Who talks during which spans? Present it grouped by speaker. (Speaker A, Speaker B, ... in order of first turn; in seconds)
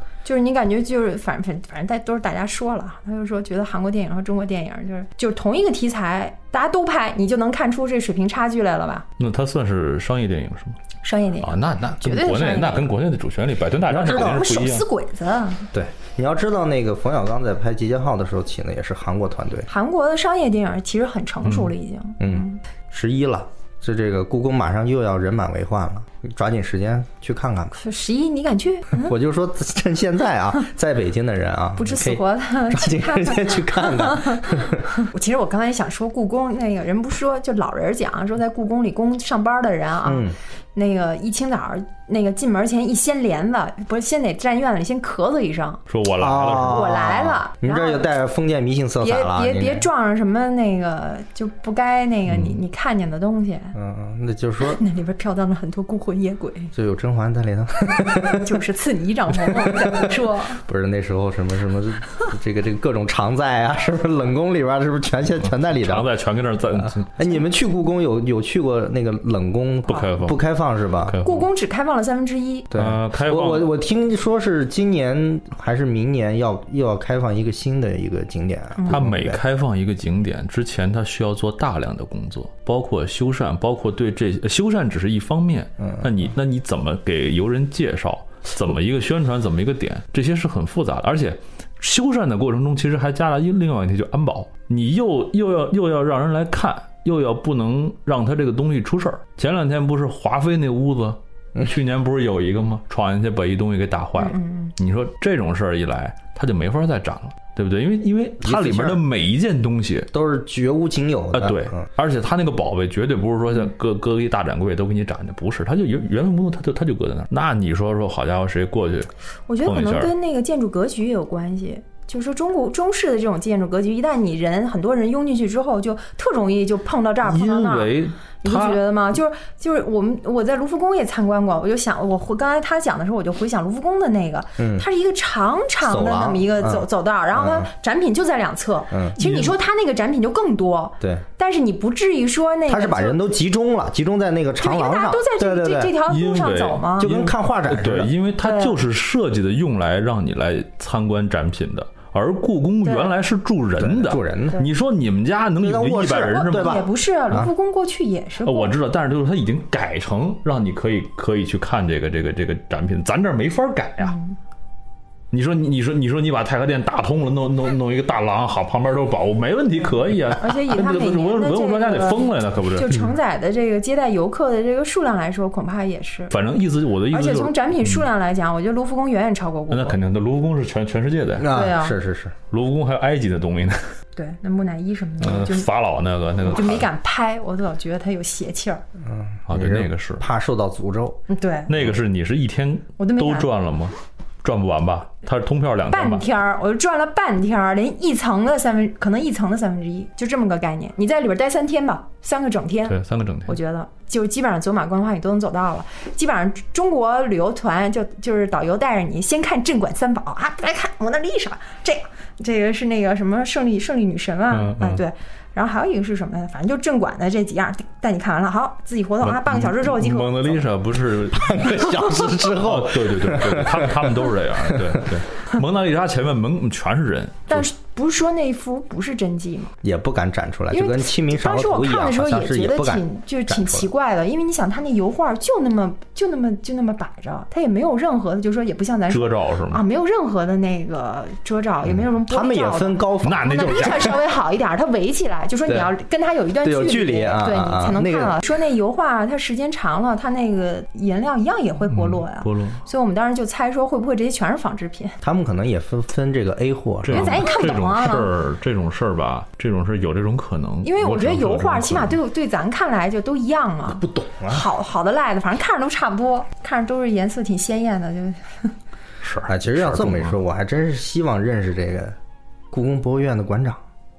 Speaker A: 0.2-9.1, 11.0-13.0, 14.1-15.7, 19.7-22.6, 27.7-29.1, 31.8-45.8, 46.6-48.1, 49.0-53.8, 54.6-56.7, 58.0-60.6, 71.2-72.7, 104.2-104.7, 119.5-143.2, 144.6-147.1, 148.4-148.8, 152.8-153.1, 156.5-158.7, 164.0-164.4, 170.4-176.4, 177.1-180.0, 181.5-182.0, 184.1-185.7, 186.4-188.8, 191.3-191.7, 193.0-193.5, 195.9-220.7, 227.5-229.7, 230.7-255.2, 257.1-258.3, 260.8-268.7
Speaker B: 9.2-10.8, 11.4-14.8, 21.4-21.7, 45.9-47.0, 65.4-67.3, 69.8-70.4, 71.0-71.5, 72.7-73.7, 78.9-110.1, 111.3-119.1, 119.6-120.1, 127.2-128.8, 139.2-139.6, 146.1-156.9, 158.4-164.1, 165.3-173.0, 176.3-178.1, 179.7-181.5, 182.5-183.8, 185.2-186.9, 189.5-190.2, 191.7-196.2, 202.8-203.6, 214.5-215.0, 219.2-227.7, 239.1-239.8, 243.2-244.2, 251.9-252.8, 257.0-262.2, 269.2-270.4
Speaker C: 13.9-14.4, 15.7-19.7, 22.2-27.8, 28.9-34.9, 40.0-40.4, 46.2-49.9, 53.7-54.8, 56.7-58.4, 59.6-66.1, 66.9-71.2, 72.7-79.4, 85.8-86.1, 108.4-109.0, 110.1-111.8, 134.6-134.9, 135.8-137.7, 138.9-139.2, 142.7-146.0, 147.0-148.1, 153.8-154.6, 155.6-157.5, 181.4-182.3, 189.0-191.2, 221.3-225.1, 229.8-233.9, 241.8-244.2, 245.7-245.9, 246.6-248.4, 255.2-257.5, 263.9-264.6, 269.5-272.1, 272.7-273.8